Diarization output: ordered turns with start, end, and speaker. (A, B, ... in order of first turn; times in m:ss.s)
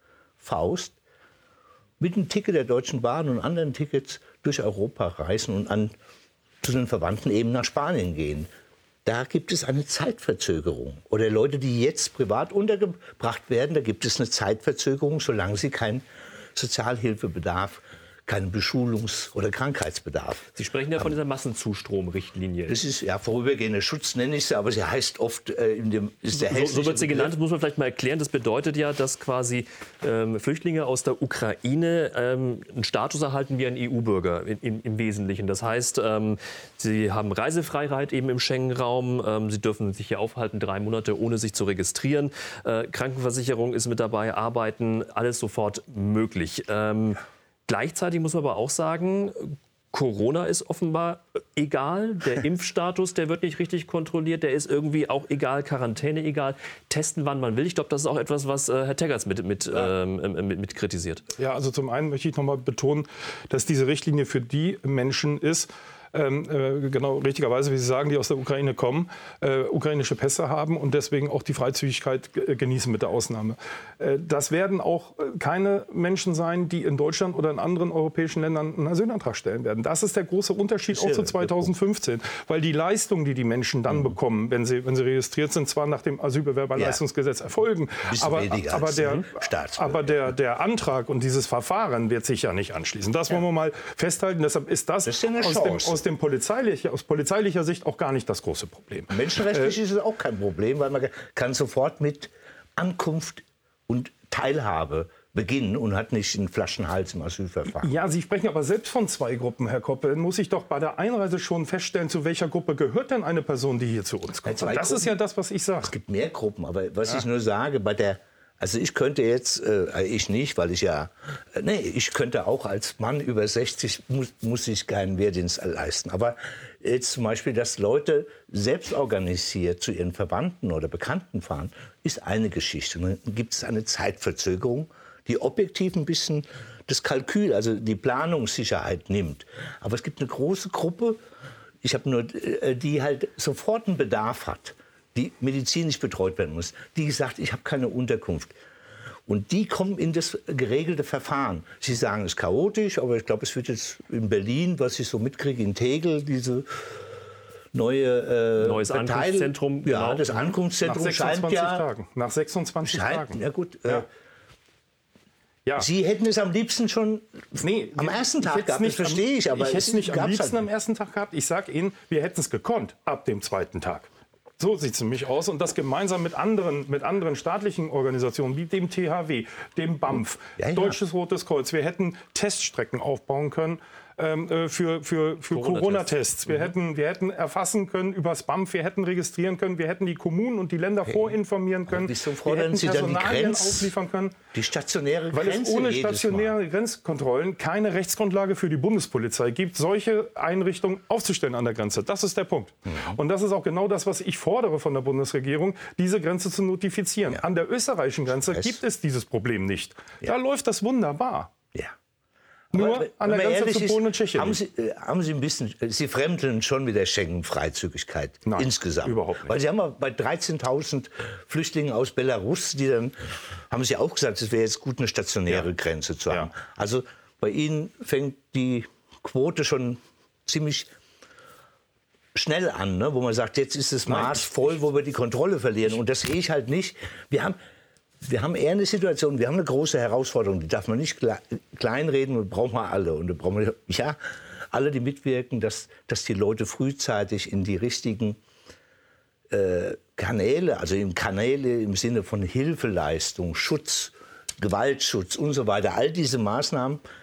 0:00.4-0:01.0 A
0:02.0-0:05.9 A
0:06.6-0:08.5 A
0:09.0-0:21.1 A
0:20.6-0:22.8 B
0:22.7-0:27.3 A
0:26.3-1:01.2 B
1:01.4-1:39.8 C
1:20.9-1:21.7 A
1:23.9-1:24.2 A
1:28.0-1:30.3 A
1:35.0-1:36.0 A
1:39.1-1:47.9 A
1:47.8-1:55.9 C
1:54.4-1:55.1 A
1:55.8-2:21.2 A
2:21.8-2:28.5 A
2:29.3-2:36.8 A
2:37.7-2:41.8 A
2:38.6-2:40.5 B
2:40.8-2:44.0 C
2:42.8-2:44.1 A
2:45.8-2:50.6 A
2:47.6-3:14.4 C
3:00.6-3:01.0 A
3:05.5-3:06.1 B
3:11.0-3:11.4 A
3:11.9-3:13.9 A
3:14.5-3:16.5 A
3:15.3-3:31.5 C
3:22.9-3:23.2 A
3:28.5-3:28.8 A
3:32.7-3:34.6 C
3:32.7-3:43.2 A
3:38.4-3:39.5 C
3:43.7-3:50.9 A
3:52.3-3:57.6 A
3:54.0-3:54.6 C
3:58.2-4:04.2 A
4:04.7-4:08.4 A
4:09.5-4:17.0 A